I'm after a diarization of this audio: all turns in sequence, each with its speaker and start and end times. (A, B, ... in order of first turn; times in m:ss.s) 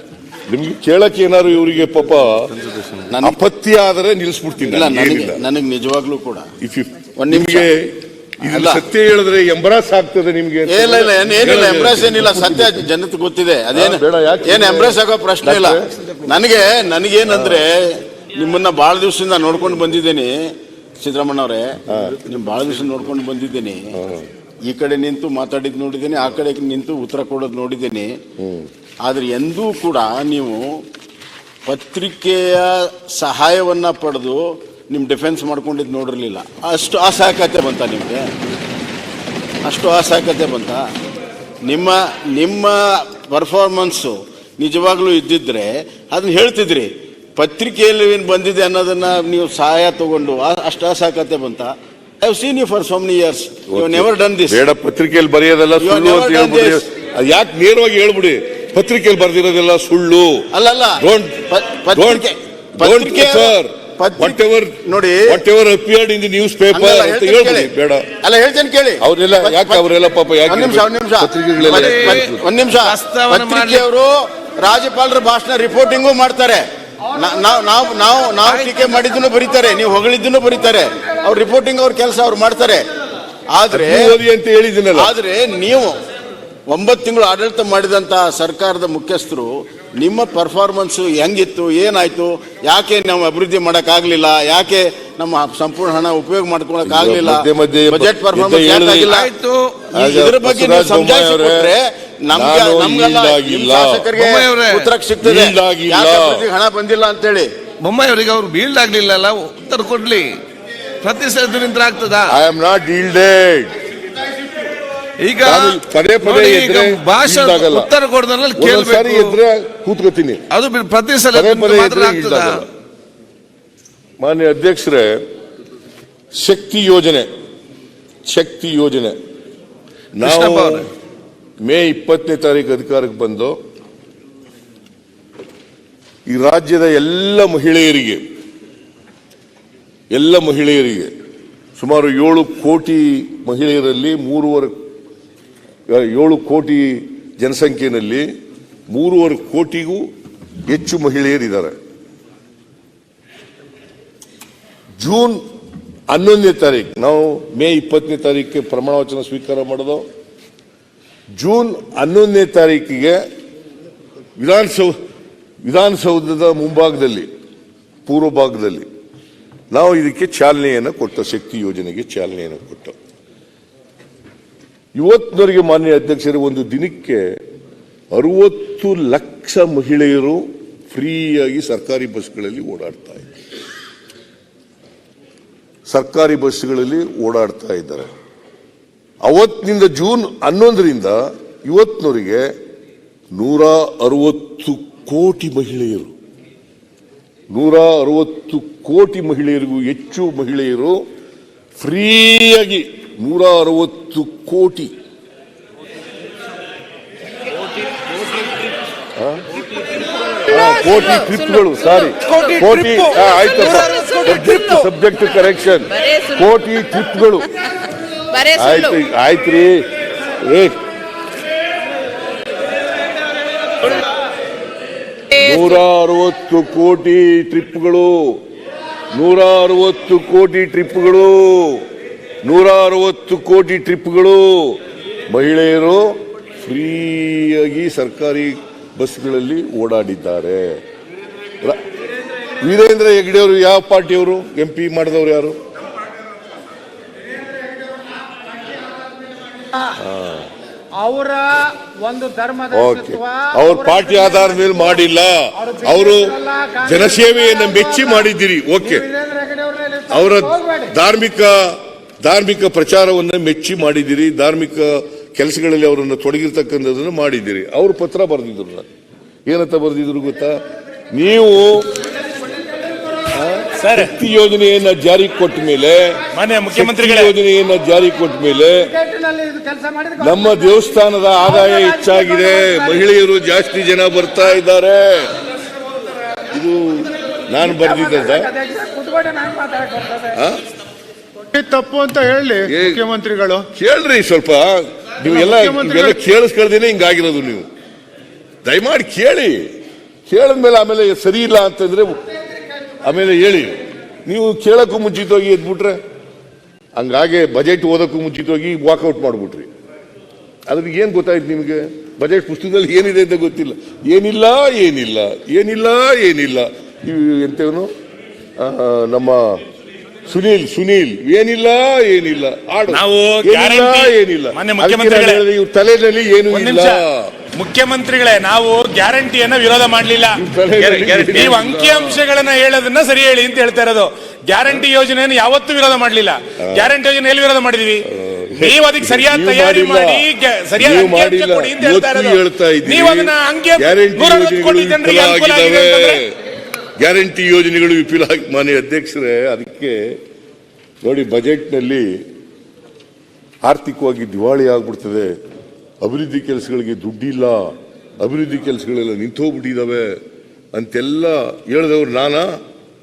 0:00.5-0:02.7 A
0:03.1-0:03.4 B
0:03.2-0:05.4 A
0:04.6-0:06.5 B
0:06.6-0:12.8 A
0:07.2-0:07.7 B
0:08.4-0:08.8 B
0:10.7-0:23.8 B
0:13.7-0:16.1 A
0:17.2-0:17.6 A
0:21.9-0:22.2 A
0:23.9-0:24.3 A
0:24.7-0:28.1 B
0:28.4-0:28.7 A
0:29.0-0:30.8 B
0:31.6-0:38.3 B
0:39.6-0:40.8 B
0:41.6-0:54.6 B
0:53.7-1:08.1 A
0:55.8-0:56.8 B
1:00.5-1:05.4 B
1:06.7-1:09.9 B
1:09.0-1:12.4 A
1:10.4-1:22.8 B
1:11.6-1:13.8 C
1:18.4-1:18.9 C
1:23.5-1:24.1 B
1:23.7-1:25.1 A
1:24.9-1:26.0 B
1:26.7-1:39.3 B
1:36.8-1:39.1 A
1:39.1-1:39.9 C
1:39.9-1:41.7 A
1:39.9-1:47.5 B
1:42.3-1:44.1 A
1:44.1-1:44.9 C
1:45.2-1:46.4 A
1:47.8-1:50.4 C
1:51.0-1:52.3 C
1:52.3-1:53.7 A
1:55.2-1:59.4 C
1:55.4-1:57.9 A
1:58.5-2:00.4 A
2:00.5-2:02.6 C
2:01.3-2:02.7 A
2:04.2-2:05.2 A
2:06.3-2:07.3 A
2:08.2-2:09.2 A
2:10.2-2:10.9 A
2:10.2-2:10.9 C
2:11.6-2:13.6 A
2:16.3-2:18.2 A
2:20.1-2:21.1 A
2:21.8-2:24.7 A
2:25.9-2:28.3 A
2:28.9-2:30.0 A
2:30.6-2:31.8 A
2:35.0-2:35.4 A
2:36.1-2:40.1 A
2:41.4-2:43.2 A
2:44.4-2:44.9 A
2:45.6-2:47.3 A
2:48.0-2:48.9 A
2:49.7-2:53.0 A
2:54.9-2:57.4 A
2:58.1-3:03.3 A
3:05.9-3:08.1 A
3:09.2-3:12.4 A
3:13.3-3:16.1 A
3:17.5-3:21.0 A
3:21.8-3:24.9 A
3:29.2-3:29.4 A
3:30.4-3:37.5 A
3:38.4-3:39.8 A
3:40.4-3:40.8 A
3:45.3-3:48.4 A
3:49.1-3:51.8 A
3:52.4-3:54.8 A
3:55.3-4:00.8 A
4:02.6-4:05.6 A
4:09.9-4:10.5 A
4:11.0-4:14.2 D
4:12.7-4:19.1 A
4:15.6-4:17.0 D
4:19.1-4:20.9 D
4:20.1-4:28.9 A
4:29.4-4:30.6 A
4:31.1-4:31.9 A
4:33.3-4:39.0 A
4:33.8-4:34.1 E
4:36.3-4:37.3 E
4:39.0-4:40.5 D
4:40.2-4:45.3 A
4:41.6-4:42.8 D
4:46.5-4:48.6 A
4:47.9-4:50.3 D
4:50.3-4:50.6 A
4:51.5-4:53.6 E
4:52.6-4:53.1 A
4:53.6-4:57.7 A
4:55.3-4:56.2 E
4:58.6-4:59.7 A
5:00.3-5:02.2 A
5:03.0-5:06.0 A
5:07.0-5:09.7 A
5:10.7-5:17.9 A
5:18.6-5:19.6 A
5:20.3-5:27.3 A
5:22.9-5:25.4 E
5:26.5-5:27.0 E
5:27.5-5:46.2 E
5:30.3-5:32.2 A
5:36.6-5:36.9 A
5:38.0-5:46.3 A
5:47.0-5:50.2 A
5:51.0-5:52.2 A
5:53.6-5:55.3 A
5:56.0-6:00.2 A
6:00.7-6:02.6 A